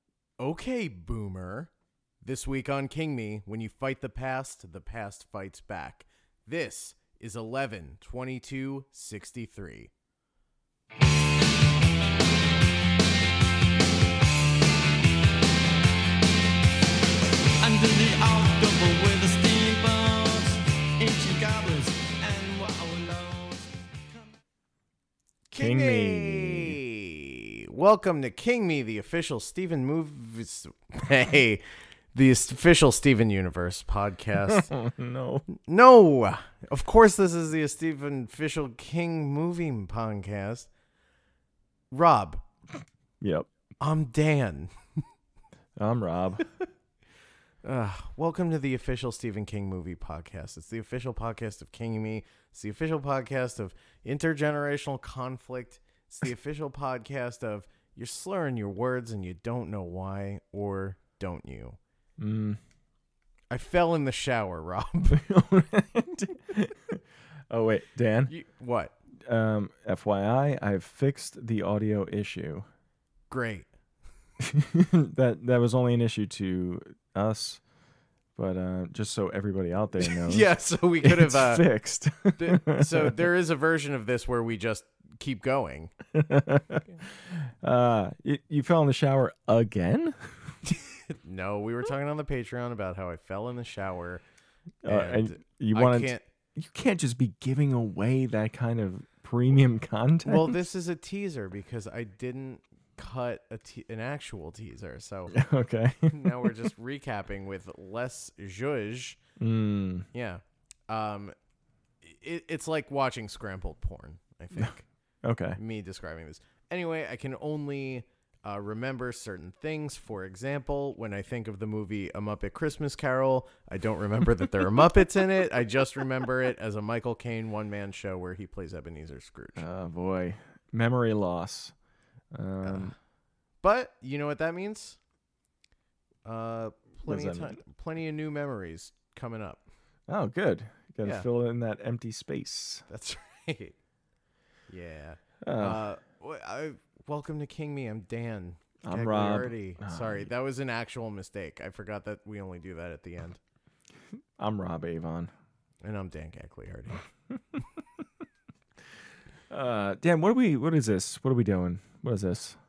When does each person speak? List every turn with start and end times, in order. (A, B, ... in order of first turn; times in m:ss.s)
0:00.4-0:01.7 A
0:02.2-0:09.9 A
0:17.6-0:23.8 B
0:25.5-0:26.8 C
0:25.5-0:34.7 A
0:34.4-0:35.4 C
0:35.6-0:40.7 A
0:41.9-0:42.4 A
0:43.2-0:43.5 C
0:43.8-0:44.7 A
0:45.8-0:46.4 C
0:47.6-1:01.8 A
1:02.2-1:02.6 C
1:03.5-1:05.2 A
1:05.1-1:08.3 C
1:08.3-1:08.9 A
1:09.2-1:12.6 C
1:13.3-1:13.7 A
1:14.4-1:17.6 C
1:18.4-1:20.5 C
1:20.0-1:21.6 A
1:21.0-1:23.2 C
1:22.4-1:25.9 A
1:26.1-1:30.6 C
1:31.2-1:34.2 A
1:34.8-1:40.6 C
1:34.8-1:36.2 A
1:40.2-1:45.4 A
1:45.3-1:46.6 C
1:46.1-1:49.2 A
1:49.4-1:50.1 C
1:50.1-1:51.3 A
1:52.0-1:54.8 A
1:55.2-1:55.6 C
1:55.6-2:09.6 A
2:09.6-2:11.7 C
2:12.3-2:12.9 C
2:12.6-2:12.9 A
2:13.6-2:15.0 A
2:16.2-2:19.6 A
2:17.0-2:17.6 C
2:20.1-2:22.8 C
2:21.0-2:21.3 A
2:22.9-2:23.8 A
2:24.7-2:33.4 A
2:25.4-2:25.8 C
2:28.8-2:30.3 C
2:34.4-2:35.3 C
2:35.8-2:37.0 A
2:39.5-2:42.6 C